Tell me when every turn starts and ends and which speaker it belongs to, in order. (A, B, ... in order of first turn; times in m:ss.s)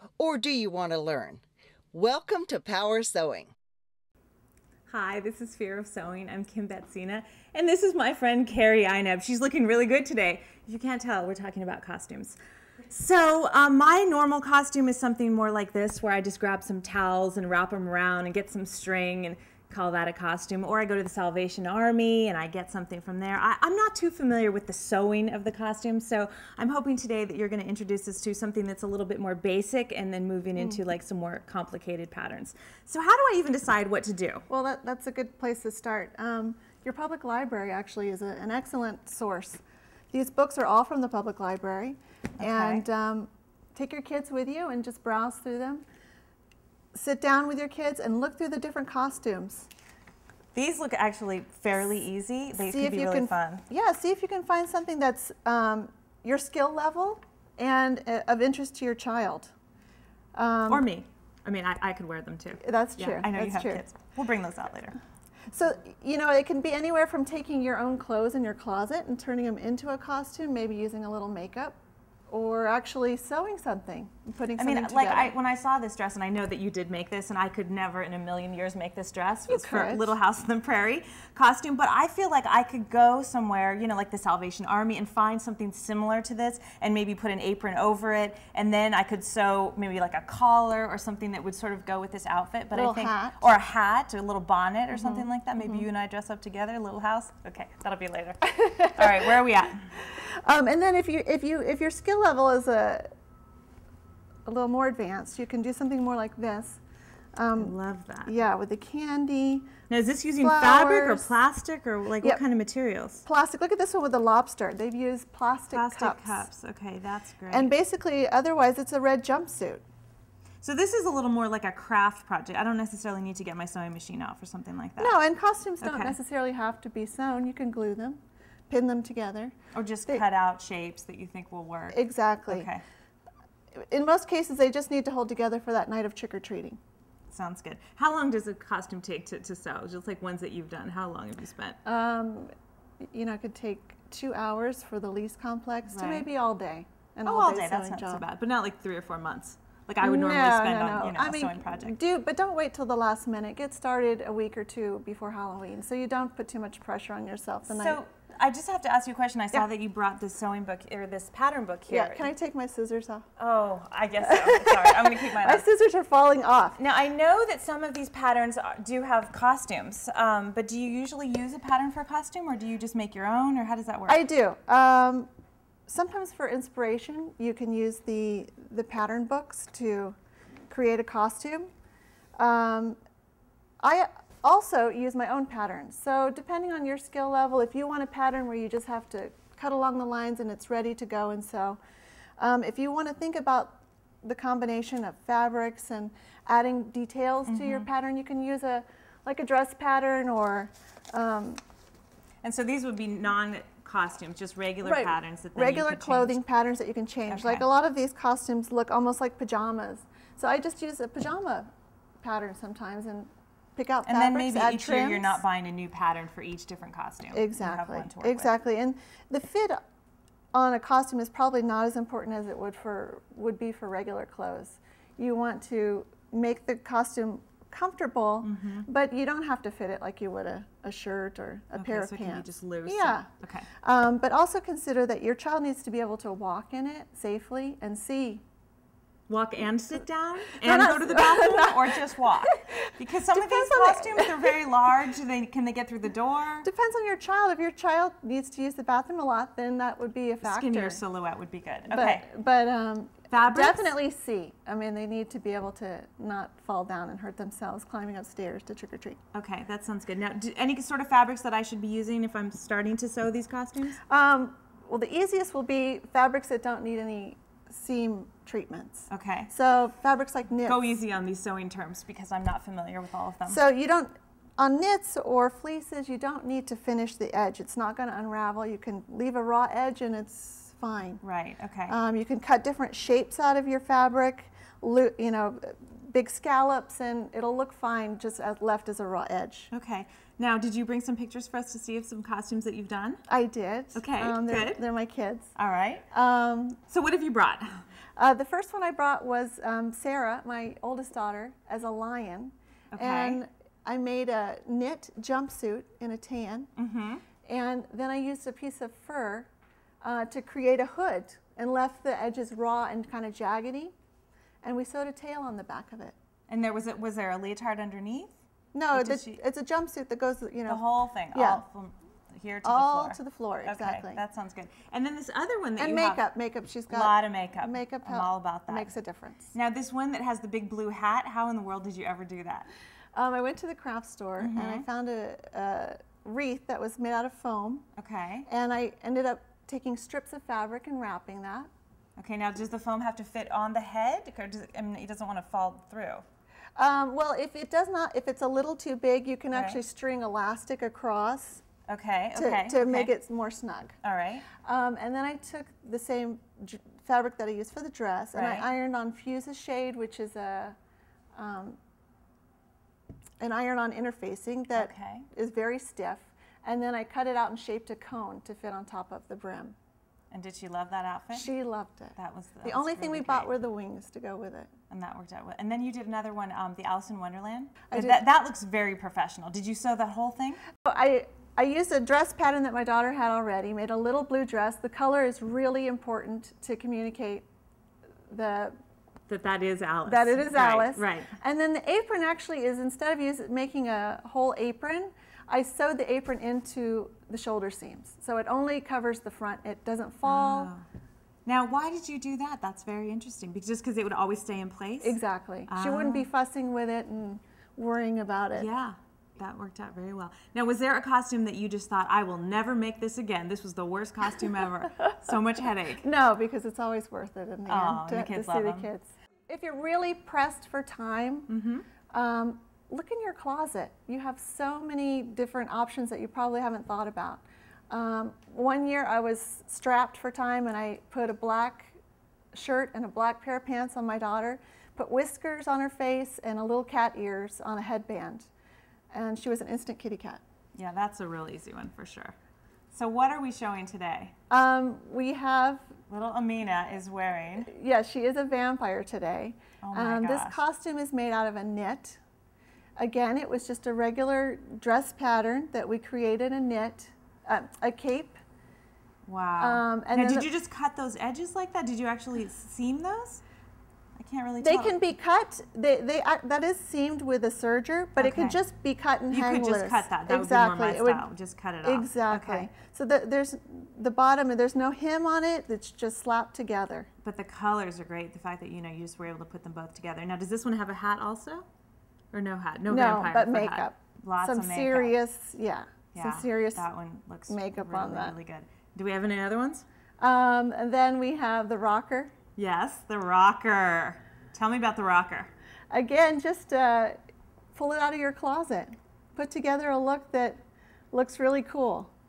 0:00.2-0:03.5 A
0:04.9-0:12.4 B
0:12.9-0:34.4 B
0:34.5-0:45.8 C
0:42.4-0:42.8 B
0:46.9-0:49.7 C
0:50.5-0:53.6 B
0:52.6-0:59.5 C
1:00.4-1:00.9 C
1:00.7-1:05.0 B
1:02.6-1:03.8 C
1:05.5-1:11.8 C
1:12.3-1:15.4 C
1:14.6-1:39.9 B
1:19.5-1:20.1 C
1:32.7-1:33.4 C
1:34.9-1:35.9 C
1:38.5-1:39.4 C
1:40.0-1:43.1 C
1:44.5-1:46.8 C
1:47.4-1:49.8 C
1:47.6-1:48.4 B
1:49.9-1:53.2 B
1:50.4-1:51.3 C
1:53.2-1:56.5 C
1:55.7-1:57.7 B
1:57.5-1:59.8 C
2:00.6-2:05.2 B
2:05.0-2:09.5 C
2:05.8-2:06.2 B
2:09.7-2:12.8 B
2:11.9-2:12.7 C
2:13.8-2:16.8 C
2:17.3-2:21.8 B
2:21.8-2:22.5 C
2:23.1-2:28.2 C
2:25.9-2:26.3 B
2:27.2-2:32.0 B
2:30.0-2:38.0 C
2:37.7-2:42.3 B
2:41.9-2:43.2 C
2:43.4-2:45.6 B
2:44.2-2:46.8 C
2:46.8-2:54.2 B
2:54.1-2:55.3 C
2:55.9-3:00.2 C
3:00.7-3:01.7 C
3:02.4-3:03.0 C
3:03.8-3:11.8 C
3:12.4-3:21.6 C
3:17.4-3:17.9 B
3:22.4-3:26.4 B
3:24.8-3:31.7 C
3:27.3-3:27.6 B
3:32.2-3:35.4 C
3:34.1-3:38.5 B
3:37.3-3:39.8 C
3:40.5-3:53.3 C
3:48.4-3:48.9 B
3:51.8-3:53.7 B
3:53.8-3:58.4 C
3:59.3-4:06.7 B
4:00.6-4:04.7 C
4:06.6-4:11.0 C
4:10.4-4:12.3 B
4:11.9-4:19.2 C
4:13.3-4:13.9 B
4:19.3-4:24.0 B
4:24.0-4:30.8 C
4:29.1-4:29.5 B
4:30.6-4:33.6 B
4:33.5-4:41.2 C
4:41.2-4:42.0 B
4:41.9-4:49.7 C
4:49.7-4:53.2 B
4:53.3-4:55.5 C
4:54.0-4:54.8 B
4:55.6-4:56.0 B
4:56.1-4:56.8 C
4:56.9-4:57.8 B
4:58.2-5:06.7 C
5:02.9-5:03.4 B
5:06.8-5:07.2 B
5:07.4-5:09.5 C
5:10.0-5:13.9 C
5:14.6-5:16.2 C
5:16.5-5:18.3 B
5:18.7-5:21.6 C
5:18.9-5:19.4 B
5:20.7-5:26.2 B
5:22.6-5:24.2 C
5:25.8-5:29.5 C
5:26.9-5:28.9 B
5:29.5-5:32.7 B
5:33.2-5:37.9 C
5:34.4-5:34.8 B
5:38.0-5:38.5 B
5:38.5-5:41.7 C
5:42.2-5:46.2 B
5:46.8-5:51.7 C
5:49.5-5:49.8 B
5:51.9-5:53.1 B
5:52.4-5:54.0 C
5:54.0-5:54.5 B
5:54.6-6:00.8 C
5:58.4-5:58.7 B
6:01.4-6:01.8 C
6:03.4-6:09.8 C
6:04.7-6:05.3 B
6:10.3-6:11.5 B
6:11.3-6:14.7 C
6:12.2-6:13.5 B
6:14.9-6:20.6 B
6:17.9-6:18.2 C
6:20.8-6:27.4 C
6:28.3-6:28.8 C
6:29.3-6:31.3 B
6:30.1-6:40.7 C
6:40.2-6:40.8 B
6:41.5-6:46.3 B
6:45.0-6:48.7 C
6:48.5-6:56.1 B
6:56.0-7:01.5 C
6:57.7-6:58.9 B
7:01.5-7:01.9 B
7:02.1-7:12.0 C
7:12.5-7:18.5 C
7:19.1-7:20.4 C
7:20.8-7:22.4 B
7:22.9-7:24.3 B
7:24.5-7:25.9 C
7:26.1-7:27.7 B
7:27.6-7:32.2 C
7:29.8-7:30.6 B
7:33.0-7:38.4 C
7:39.3-7:43.4 B
7:39.6-7:40.5 C
7:44.2-7:45.0 B
7:44.6-7:51.3 C
7:48.2-7:48.6 B
7:49.3-7:52.7 B
7:51.8-7:57.1 C
7:57.2-8:01.6 B
8:02.3-8:05.1 B
8:02.9-8:06.8 C
8:06.1-8:09.8 B
8:07.5-8:08.4 C
8:10.2-8:12.3 C
8:12.6-8:15.5 B
8:15.9-8:17.2 C
8:17.7-8:20.6 C
8:21.1-8:22.1 C